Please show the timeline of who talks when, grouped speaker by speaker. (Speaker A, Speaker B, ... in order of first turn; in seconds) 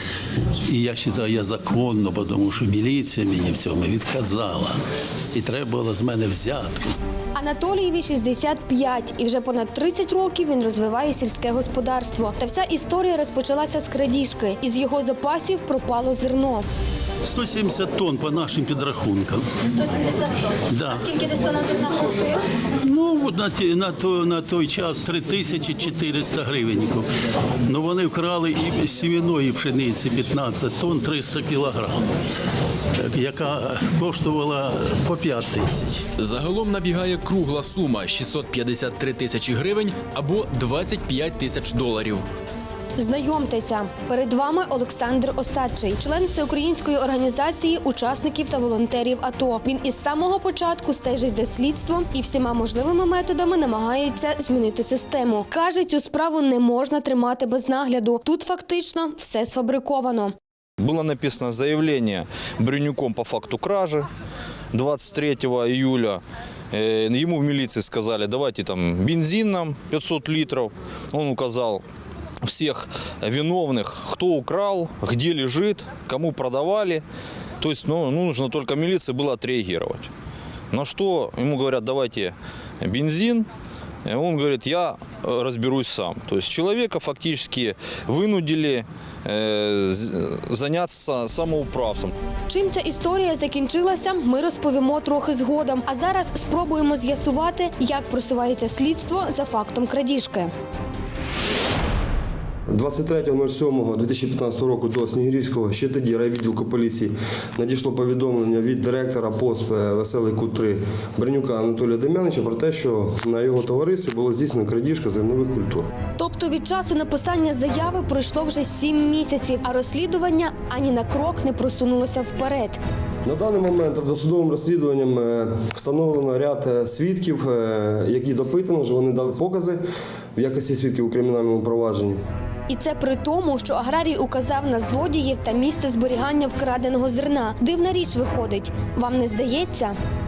Speaker A: 0.7-4.8, 5.3-6.8, 17.3-19.5, 20.7-21.1, 22.8-27.1, 27.7-32.0, 33.0-36.0
Speaker B: 7.3-16.7, 19.8-20.4, 20.9-22.4, 43.0-60.4, 92.5-100.5, 116.2-122.8, 132.7-140.0
Speaker C: 36.2-42.2
Speaker D: 60.8-64.1, 64.7-71.8, 72.4-77.0, 77.6-80.1, 80.7-83.5, 84.0-92.1
Speaker E: 102.7-115.9, 123.2-129.8, 130.4-132.2